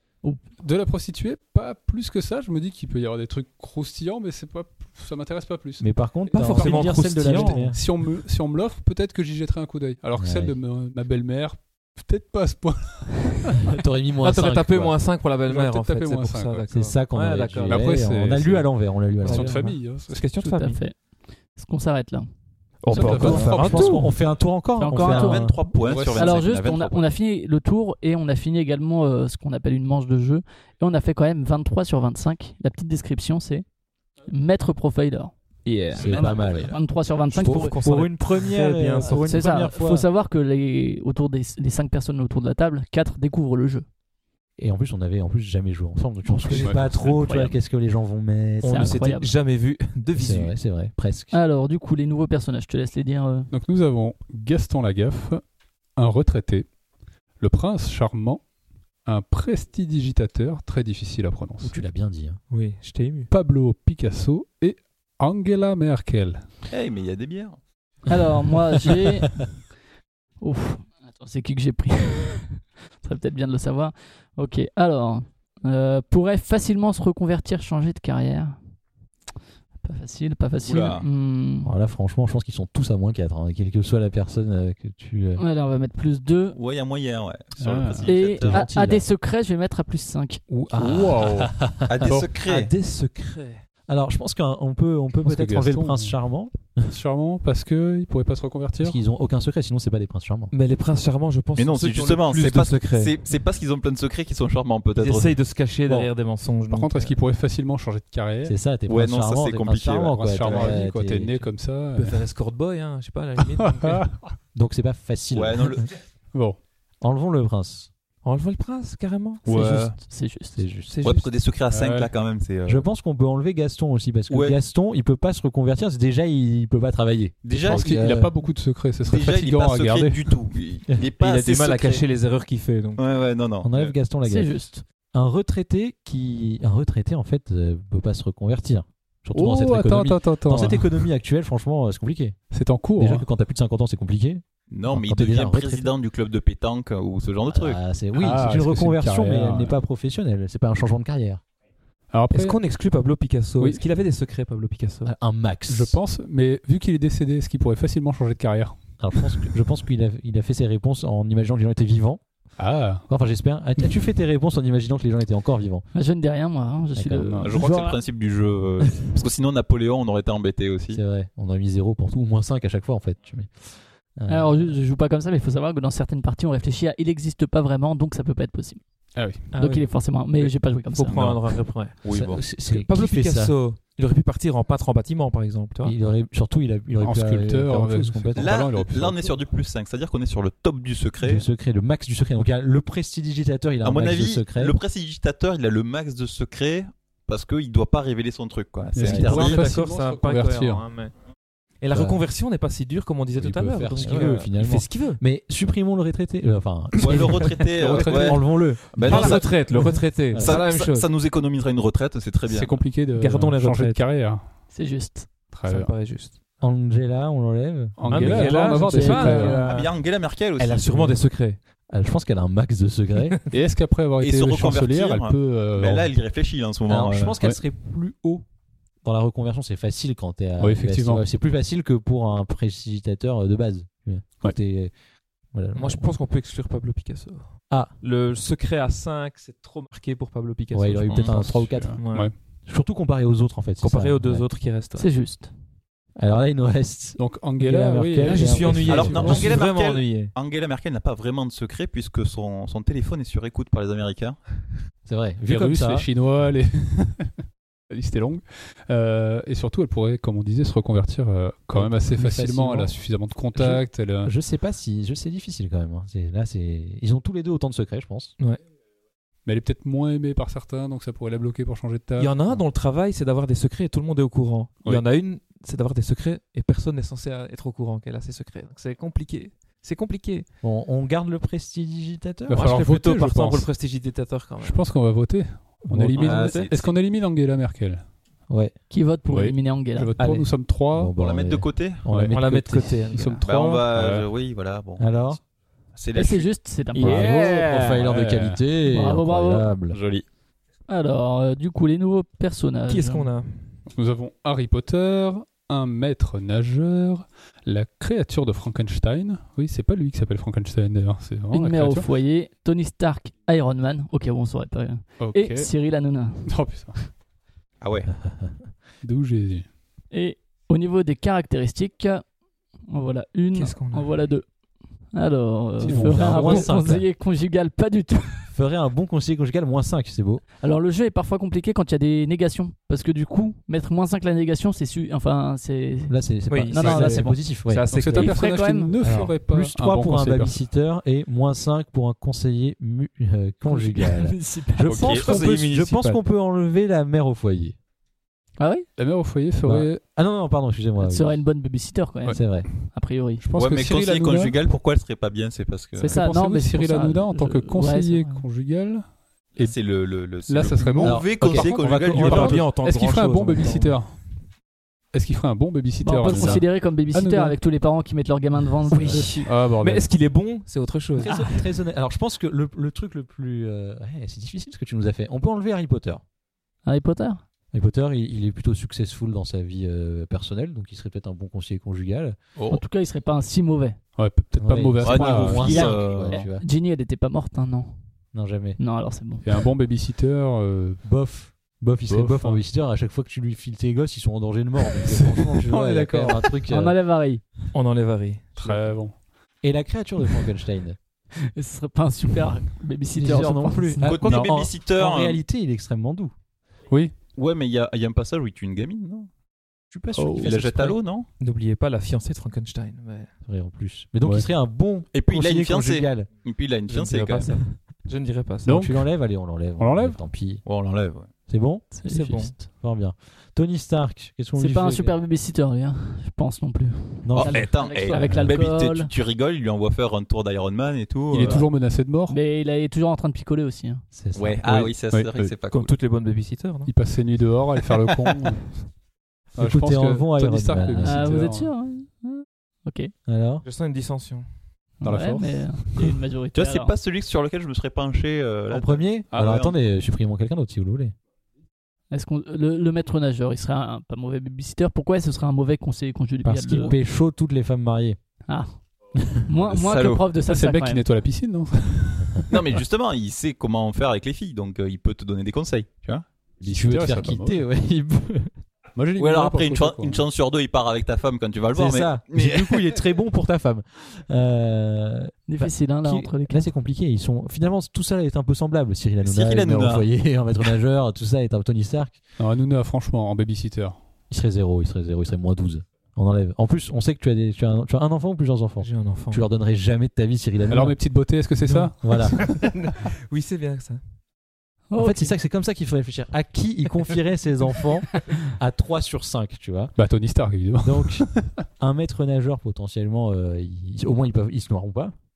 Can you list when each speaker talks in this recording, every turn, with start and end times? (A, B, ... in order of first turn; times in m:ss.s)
0:00.6-0:13.7 A
0:05.8-0:07.8 B
0:06.3-0:07.8 C
0:10.2-0:10.6 B
0:13.7-0:15.0 B
0:14.2-0:17.9 C
0:15.5-0:16.7 A
0:16.7-0:19.6 B
0:17.6-0:20.2 A
0:19.2-0:20.8 C
0:20.4-0:21.0 D
0:21.6-0:22.3 D
0:22.8-0:24.1 C
0:22.9-0:24.1 A
0:22.9-0:25.7 B
0:24.8-0:25.5 D
0:25.0-0:27.0 E
0:25.8-0:26.4 A
0:26.2-0:33.6 D
0:34.3-0:35.3 D
0:35.6-0:36.6 C
0:35.9-0:36.8 B
0:36.1-0:37.8 D
0:37.3-0:39.4 C
0:37.4-0:40.1 B
0:39.0-0:43.9 D
0:44.6-0:49.0 B
0:46.3-0:47.0 C
0:46.5-0:47.1 A
0:47.0-0:47.6 D
0:48.6-0:50.5 C
0:48.6-0:49.3 D
0:50.2-0:51.4 B
0:51.3-0:53.5 D
0:53.5-0:55.4 A
0:56.0-0:56.7 A
0:57.4-0:58.4 A
0:59.0-1:01.8 A
1:01.6-1:02.4 B
1:02.5-1:03.3 C
1:03.3-1:06.4 A
1:06.7-1:07.6 E
1:08.1-1:09.4 D
1:10.4-1:18.6 D
1:19.8-1:21.7 D
1:20.6-1:21.0 E
1:21.6-1:25.4 B
1:25.4-1:26.6 D
1:26.5-1:28.7 E
1:27.6-1:28.2 A
1:28.1-1:30.4 D
1:28.4-1:29.1 B
1:30.5-1:32.2 B
1:30.7-1:32.3 A
1:31.9-1:32.7 E
1:32.4-1:33.6 C
1:33.9-1:36.9 B
1:35.2-1:36.1 A
1:36.9-1:39.0 A
1:38.8-1:40.5 B
1:40.5-1:43.1 C
1:41.6-1:45.4 E
1:45.0-1:47.2 C
1:46.7-1:48.6 A
1:48.4-1:51.5 B
1:48.9-1:50.8 E
1:50.1-1:52.2 A
1:52.0-1:54.1 C
1:53.5-1:54.4 A
1:54.5-1:55.9 B
1:55.3-1:56.0 E
1:56.3-1:56.6 A
1:57.0-1:57.9 B
1:58.2-2:00.0 C
1:59.5-2:00.0 E
1:59.5-2:00.6 D
2:00.6-2:00.9 B
2:00.9-2:01.3 C
2:01.0-2:02.9 E
2:01.7-2:02.1 A
2:02.7-2:08.4 B
2:04.3-2:04.6 E
2:07.4-2:08.2 E
2:07.7-2:10.4 A
2:09.1-2:12.0 E
2:11.2-2:13.0 C
2:13.0-2:13.9 E
2:13.6-2:22.4 B
2:14.2-2:14.8 D
2:19.3-2:21.1 A
2:22.5-2:23.3 A
2:23.0-2:25.9 B
2:24.7-2:27.8 E
2:27.5-2:31.4 B
2:28.1-2:29.8 A
2:32.1-2:32.6 A
2:32.3-2:35.1 C
2:35.0-2:36.0 B
2:35.7-2:39.0 A
2:39.0-2:42.2 B
2:42.6-2:43.1 A
2:43.1-2:45.9 B
2:45.9-2:48.0 D
2:47.0-2:47.4 B
2:47.2-2:47.7 A
2:47.4-2:51.0 E
2:50.9-2:54.8 B
2:54.3-2:58.8 D
2:59.2-2:59.5 A
2:59.5-3:02.0 C
2:59.5-3:01.2 D
3:01.1-3:01.4 E
3:02.0-3:02.4 E
3:02.1-3:03.6 B
3:02.7-3:06.0 C
3:05.8-3:08.6 B
3:07.0-3:09.3 A
3:08.4-3:11.4 E
3:11.2-3:14.8 B
3:13.8-3:19.7 E
3:18.9-3:20.9 A
3:19.0-3:19.5 B
3:19.2-3:21.2 C
3:21.8-3:25.2 C
3:21.9-3:22.2 B
3:23.4-3:29.8 B
3:27.0-3:29.6 E
3:27.8-3:28.5 A
3:28.9-3:31.1 C
3:30.3-3:30.6 B
3:30.4-3:32.9 E
3:32.5-3:34.6 A
3:33.1-3:34.0 C
3:34.7-3:35.3 D
3:35.5-3:35.9 A
3:35.7-3:36.4 C
3:36.6-3:38.5 B
3:38.0-3:39.7 A
3:38.1-3:39.9 C
3:38.4-3:39.7 D
3:39.5-3:41.1 E
3:40.6-3:41.6 C
3:41.9-3:43.4 B
3:43.5-3:46.1 A
3:44.2-3:47.4 E
3:46.9-3:48.4 B
3:49.0-3:54.9 B
3:50.6-3:51.2 A
3:55.5-3:56.1 B
3:55.8-4:02.3 C
4:00.7-4:02.0 B
4:01.4-4:02.3 A
4:02.7-4:04.5 B
4:03.8-4:05.1 C
4:05.0-4:05.5 D
4:06.2-4:09.6 B
4:07.2-4:09.4 A
4:08.2-4:10.3 C
4:08.9-4:14.7 E
4:15.1-4:16.1 B
4:15.5-4:17.4 A
4:17.9-4:24.3 A
4:21.7-4:23.0 B
4:23.5-4:28.4 B
4:29.4-4:32.6 A
4:32.2-4:40.5 C
4:40.6-4:42.6 B
4:42.5-4:43.7 A
4:42.5-4:44.8 C
4:44.6-4:48.0 A
4:45.8-4:46.5 B
4:46.2-4:46.9 E
4:46.2-4:46.7 C
4:48.5-4:48.8 B
4:48.9-4:50.1 D
4:49.3-4:51.1 A
4:50.2-4:53.1 B
4:51.2-4:52.0 E
4:52.1-4:54.3 A
4:52.3-4:53.4 C
4:53.2-4:53.4 D
4:53.4-4:55.4 E
4:55.0-4:55.4 B
4:56.0-4:56.5 E
4:56.1-4:57.3 D
4:56.9-4:58.0 C
4:57.0-5:00.0 B
4:58.0-4:58.6 A
4:58.9-4:59.7 D
4:59.9-5:00.3 E
5:00.9-5:03.3 D
5:02.9-5:03.7 C
5:03.9-5:12.1 A
5:11.5-5:16.4 D
5:15.2-5:15.7 A
5:16.5-5:17.1 A
5:17.8-5:18.1 E
5:18.2-5:18.6 B
5:19.0-5:19.7 A
5:20.1-5:22.2 D
5:22.9-5:24.4 D
5:23.5-5:24.1 C
5:25.1-5:28.5 D
5:25.8-5:26.6 A
5:25.9-5:27.1 B
5:28.5-5:30.4 B
5:30.6-5:37.4 D
5:36.1-5:38.2 B
5:36.5-5:38.4 C
5:37.9-5:40.6 A
5:38.1-5:39.0 D
5:39.0-5:47.8 B
5:43.7-5:44.9 D
5:44.8-5:45.2 A
5:45.0-5:45.4 E
5:45.1-5:46.2 C
5:48.6-5:48.9 D
5:49.0-5:50.0 A
5:49.6-5:51.4 B
5:51.0-5:53.4 D
5:52.3-5:54.6 A
5:52.3-5:52.7 B
5:53.6-5:56.1 E
5:56.0-5:58.4 D
5:56.0-5:59.8 A
5:59.6-6:02.7 E
6:00.5-6:04.4 A
6:01.0-6:02.6 B
6:01.6-6:04.0 C
6:05.1-6:07.6 A
6:06.0-6:09.4 D
6:08.9-6:11.4 C
6:09.4-6:10.1 A
6:11.2-6:16.2 B
6:11.3-6:11.6 D
6:16.9-6:17.4 D
6:17.7-6:22.4 B
6:22.7-6:24.0 D
6:24.2-6:26.0 A
6:24.6-6:26.6 B
6:25.0-6:26.4 E
6:25.6-6:27.9 D
6:28.3-6:28.8 B
6:28.8-6:29.7 D
6:29.4-6:31.0 A
6:31.0-6:37.0 B
6:32.1-6:32.6 A
6:35.7-6:36.5 A
6:36.7-6:37.4 D
6:37.7-6:38.9 C
6:38.6-6:39.2 A
6:39.6-6:41.0 B
6:41.6-6:44.1 D
6:43.2-6:46.3 B
6:44.0-6:45.4 E
6:44.3-6:44.5 A
6:47.4-6:49.3 E
6:49.9-6:51.0 B
6:50.4-6:51.3 E
6:51.4-6:53.3 C
6:53.5-6:56.3 B
6:55.1-6:57.6 E
6:56.9-6:58.8 C
6:58.6-6:59.0 A
6:58.7-7:00.6 B
6:59.8-7:00.2 A
7:00.6-7:01.3 E
7:01.5-7:05.2 B
7:02.0-7:02.5 D
7:02.1-7:02.5 C
7:04.6-7:09.1 D
7:07.2-7:08.5 B
7:07.4-7:11.7 E
7:11.3-7:12.4 A
7:12.3-7:14.0 D
7:14.1-7:14.9 B
7:14.4-7:15.9 E
7:14.7-7:15.6 A
7:15.7-7:16.9 C
7:16.9-7:18.8 A
7:19.6-7:21.7 A
7:19.6-7:21.4 B
7:21.0-7:23.1 D
7:23.3-7:23.6 B
7:23.6-7:24.5 C
7:25.0-7:26.9 D
7:25.0-7:25.8 A
7:26.5-7:29.1 E
7:28.7-7:31.1 B
7:29.3-7:29.8 A
7:32.1-7:37.0 D
7:36.4-7:38.2 B
7:38.5-7:38.8 D
7:39.5-7:41.0 D
7:39.6-7:40.2 E
7:40.4-7:42.7 A
7:42.5-7:46.3 E
7:46.6-7:48.5 B
7:46.6-7:47.6 A
7:49.0-7:50.2 A
7:49.2-7:53.0 E
7:51.7-8:02.2 B
7:55.5-7:56.7 D
7:59.2-8:00.1 E
8:02.4-8:04.0 A
8:04.3-8:11.0 B
8:08.8-8:09.4 C
8:10.7-8:12.5 A
8:11.6-8:14.0 C
8:12.0-8:12.5 B
8:14.9-8:15.3 D
8:15.0-8:20.0 B
8:20.0-8:21.6 A
8:20.8-8:21.3 B
8:21.8-8:25.1 B